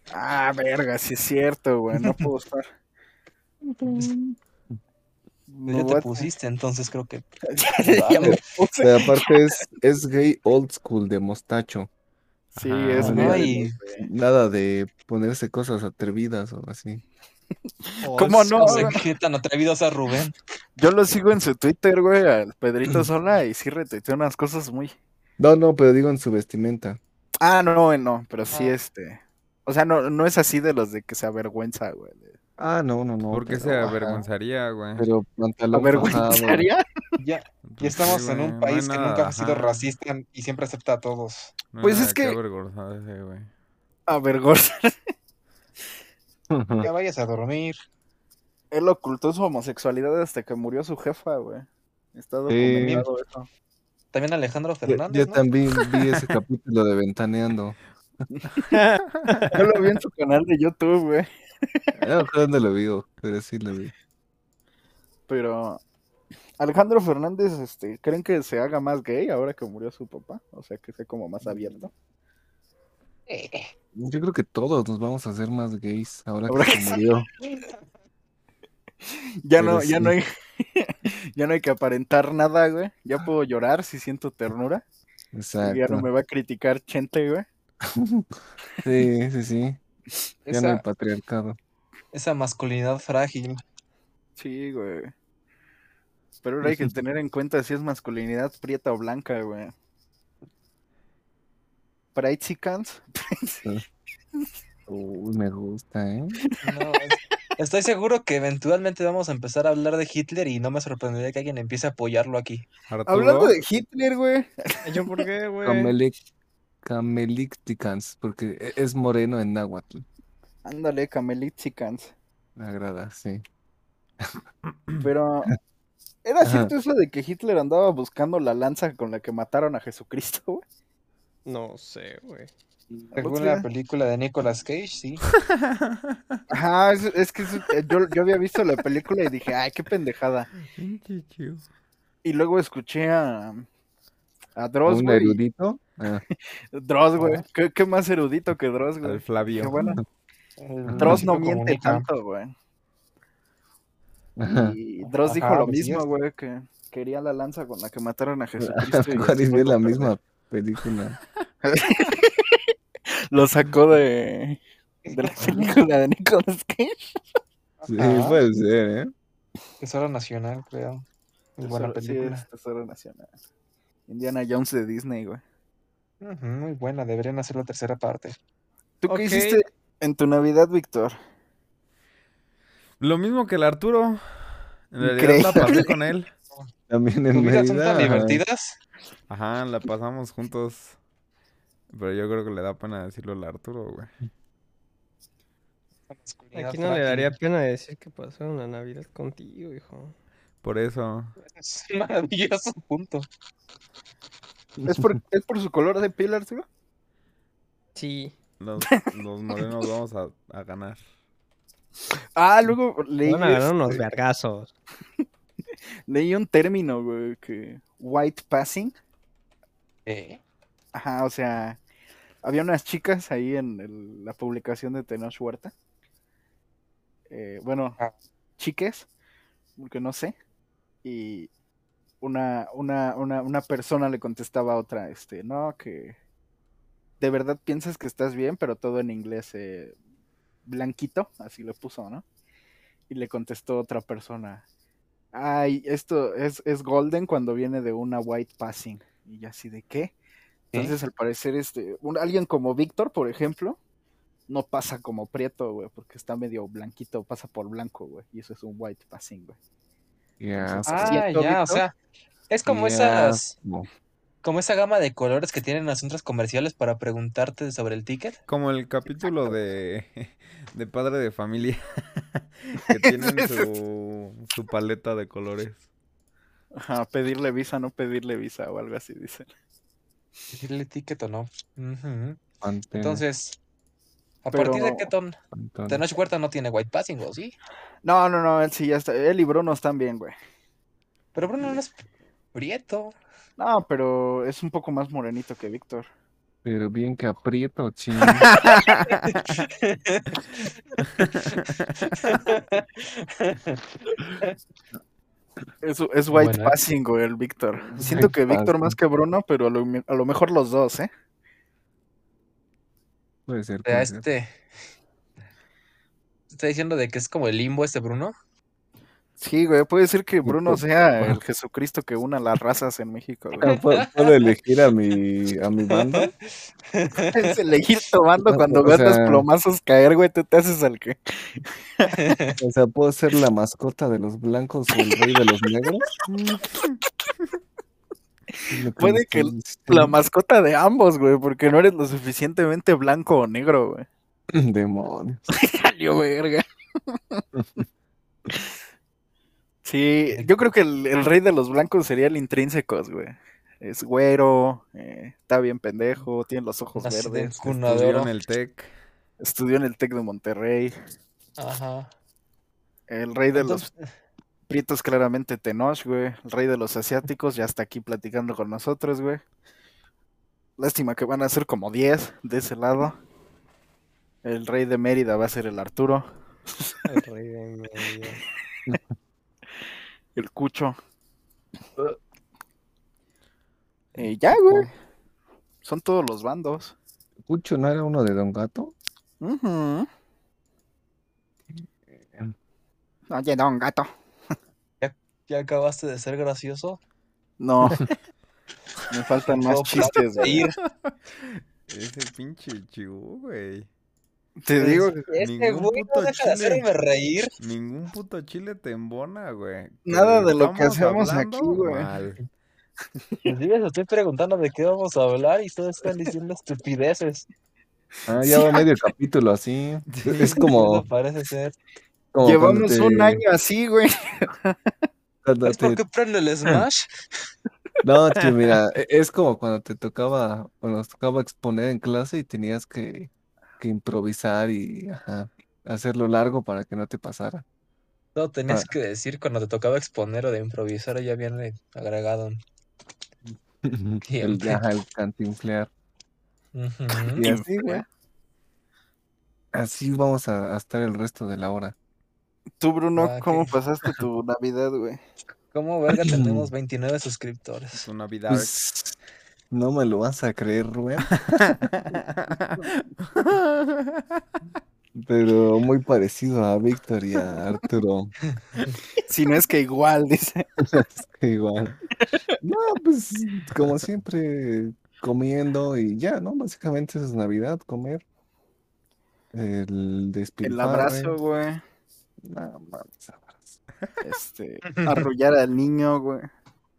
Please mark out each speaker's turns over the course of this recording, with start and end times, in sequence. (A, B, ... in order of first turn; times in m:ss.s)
0:00.1-0:02.7 A
0:02.0-0:02.3 B
0:03.6-0:04.4 C
0:05.5-0:06.3 A
0:05.7-0:07.2 B
0:07.6-0:09.3 A
0:07.8-0:08.4 B
0:08.2-0:11.9 C
0:12.5-0:13.1 D
0:12.6-0:14.1 A
0:13.0-0:13.8 B
0:13.0-0:17.0 C
0:18.0-0:19.0 A
0:18.0-0:19.0 E
0:18.2-0:20.4 B
0:20.8-0:24.9 A
0:25.4-0:27.0 C
0:27.4-0:32.4 A
0:28.5-0:28.8 B
0:32.6-0:34.2 C
0:33.3-0:35.1 D
0:35.0-0:36.7 C
0:35.7-0:36.8 A
0:37.2-0:41.6 B
0:37.7-0:39.9 D
0:41.7-0:43.5 D
0:41.8-0:42.4 A
0:44.1-0:44.9 A
0:46.5-0:46.9 C
0:46.8-0:47.8 B
0:48.7-0:53.5 A
0:52.5-0:53.0 C
0:52.8-0:53.1 B
0:54.1-0:55.4 B
0:54.9-0:57.8 C
0:58.3-0:58.7 A
0:58.7-0:59.5 E
0:59.2-0:59.5 D
0:59.5-1:02.0 A
1:02.0-1:03.9 C
1:05.3-1:05.8 A
1:06.6-1:11.9 A
1:11.4-1:11.8 C
1:13.3-1:13.7 B
1:14.0-1:17.3 C
1:16.5-1:17.0 A
1:19.0-1:24.8 A
1:19.6-1:20.2 C
1:25.3-1:26.1 C
1:25.6-1:27.5 A
1:27.8-1:28.3 C
1:28.8-1:29.8 C
1:30.5-1:30.8 B
1:30.5-1:31.6 C
1:32.1-1:33.6 B
1:34.4-1:35.1 A
1:36.4-1:39.7 A
1:36.6-1:36.9 C
1:42.2-1:43.7 A
1:44.9-1:46.4 C
1:46.6-1:52.7 B
1:52.9-1:53.6 D
1:53.1-1:55.2 A
1:54.8-1:56.0 E
1:55.6-1:56.2 C
1:56.8-2:00.0 C
2:00.6-2:02.1 A
2:02.6-2:03.4 C
2:05.0-2:05.5 A
2:06.2-2:10.6 A
2:06.4-2:06.7 C
2:11.5-2:12.5 E
2:13.1-2:13.7 A
2:13.2-2:15.2 B
2:15.4-2:16.4 D
2:16.5-2:20.5 A
2:20.7-2:21.6 D
2:22.2-2:23.6 A
2:24.6-2:25.4 A
2:24.9-2:26.2 C
2:26.7-2:30.0 A
2:27.2-2:27.4 B
2:29.0-2:29.8 D
2:30.6-2:32.1 B
2:30.9-2:31.3 C
2:31.0-2:32.5 A
2:34.4-2:34.8 C
2:34.5-2:40.1 A
2:35.0-2:36.0 B
2:38.6-2:41.2 C
2:41.6-2:42.6 A
2:43.3-2:44.6 A
2:45.0-2:45.5 B
2:45.1-2:47.0 A
2:45.4-2:45.7 C
2:47.8-2:48.4 B
2:47.9-2:49.1 C
2:49.8-2:51.0 B
2:51.6-2:52.4 B
2:51.6-2:53.3 A
2:54.1-2:55.4 A
2:56.2-2:58.4 B
2:59.0-3:01.2 A
2:59.1-2:59.6 E
3:03.0-3:06.3 D
3:05.0-3:06.0 A
3:06.9-3:08.4 C
3:07.3-3:08.8 B
3:09.3-3:11.0 D
3:11.9-3:14.1 D
3:16.1-3:17.3 B
3:16.5-3:20.1 E
3:20.6-3:21.4 D
3:21.4-3:23.3 B
3:24.8-3:25.1 C
3:24.8-3:26.7 A
3:28.0-3:28.3 E
3:28.6-3:31.0 D
3:28.9-3:29.6 A
3:32.4-3:34.0 A
3:33.3-3:34.7 E
3:36.1-3:38.9 A
3:40.1-3:40.4 B
3:40.9-3:41.8 A
3:42.4-3:45.7 A
3:47.3-3:48.0 A
3:48.6-3:49.1 A
3:49.8-3:50.4 A
3:51.0-3:51.5 A
3:52.2-3:56.2 A
3:57.2-4:00.0 A
4:00.7-4:02.2 A
4:03.1-4:04.6 A
4:05.3-4:10.1 A
4:10.7-4:13.8 A
4:14.5-4:19.6 A
4:20.4-4:21.8 C
4:20.6-4:21.2 A
4:20.9-4:21.9 B
4:22.5-4:23.5 B
4:22.7-4:23.9 C
4:24.4-4:28.4 B
4:28.5-4:35.8 D
4:32.9-4:33.7 A
4:36.8-4:39.5 A
4:40.5-4:42.4 B
4:42.6-4:43.2 C
4:43.0-4:43.6 B
4:44.4-4:45.4 B
4:44.5-4:45.1 A
4:45.5-4:46.0 C
4:45.9-4:47.6 B
4:48.0-4:50.3 A
4:51.4-4:51.9 B
4:52.5-4:53.2 B
4:53.6-4:56.1 A
4:56.6-4:58.5 C
4:58.5-4:59.6 D
4:59.2-5:01.6 B
5:01.2-5:02.4 D
5:02.2-5:04.6 B
5:05.8-5:11.1 A
5:06.3-5:06.8 B
5:08.0-5:08.3 B
5:08.0-5:09.0 C
5:13.5-5:14.2 C
5:13.8-5:14.5 B
5:16.5-5:18.3 B
5:19.4-5:23.7 A
5:20.4-5:21.4 C
5:23.6-5:26.3 C
5:23.6-5:24.4 B
5:25.9-5:27.5 B
5:27.3-5:32.4 A
5:28.4-5:29.5 C
5:32.2-5:32.6 B
5:32.6-5:36.1 C
5:36.4-5:37.0 D
5:38.7-5:40.2 C
5:39.0-5:44.1 A
5:44.5-5:45.4 C
5:45.5-5:47.4 A
5:49.8-5:57.8 A
5:57.0-5:58.3 B
5:57.8-5:58.9 D
5:59.4-6:00.9 A
6:01.6-6:02.1 B
6:03.1-6:03.9 A
6:03.5-6:04.0 B
6:04.7-6:09.4 A
6:10.8-6:13.2 A
6:14.4-6:16.3 A
6:17.1-6:18.4 E
6:20.4-6:21.0 A
6:24.2-6:24.9 A
6:24.2-6:24.9 C
6:25.8-6:26.9 A
6:27.5-6:28.9 C
6:29.4-6:30.1 A
6:32.2-6:32.5 C
6:33.3-6:34.1 A
6:35.0-6:37.0 B
6:37.6-6:38.1 A
6:39.1-6:40.7 A
6:39.5-6:40.8 B
6:40.9-6:43.9 D
6:44.6-6:45.3 A
6:44.8-6:47.5 B
6:45.4-6:46.9 D
6:47.6-6:52.4 D
6:50.1-6:52.1 A
6:53.4-6:57.5 B
6:58.3-7:01.1 C
6:58.4-6:58.8 A
7:00.1-7:00.6 D
7:00.3-7:01.8 B
7:02.3-7:03.4 C
7:02.4-7:04.9 A
7:05.4-7:06.0 C
7:05.7-7:07.1 B
7:08.0-7:17.6 C
7:18.4-7:22.6 B
7:23.8-7:25.9 C
7:24.3-7:24.8 B
7:26.7-7:27.5 B
7:27.3-7:28.0 C
7:27.4-7:28.0 A
7:29.7-7:32.0 C
7:32.8-7:35.2 A
7:33.2-7:33.7 B
7:35.7-7:38.1 B
7:36.2-7:36.7 C
7:37.9-7:38.8 D
7:38.5-7:39.2 C
7:39.7-7:41.4 C
7:41.4-7:44.4 D
7:45.2-7:48.3 C
7:49.3-7:50.7 A
7:50.9-7:52.0 C
7:52.6-7:58.2 C
7:59.5-8:01.3 C
8:00.6-8:01.8 A
8:02.4-8:03.8 C
8:04.2-8:06.5 A
8:04.9-8:05.3 B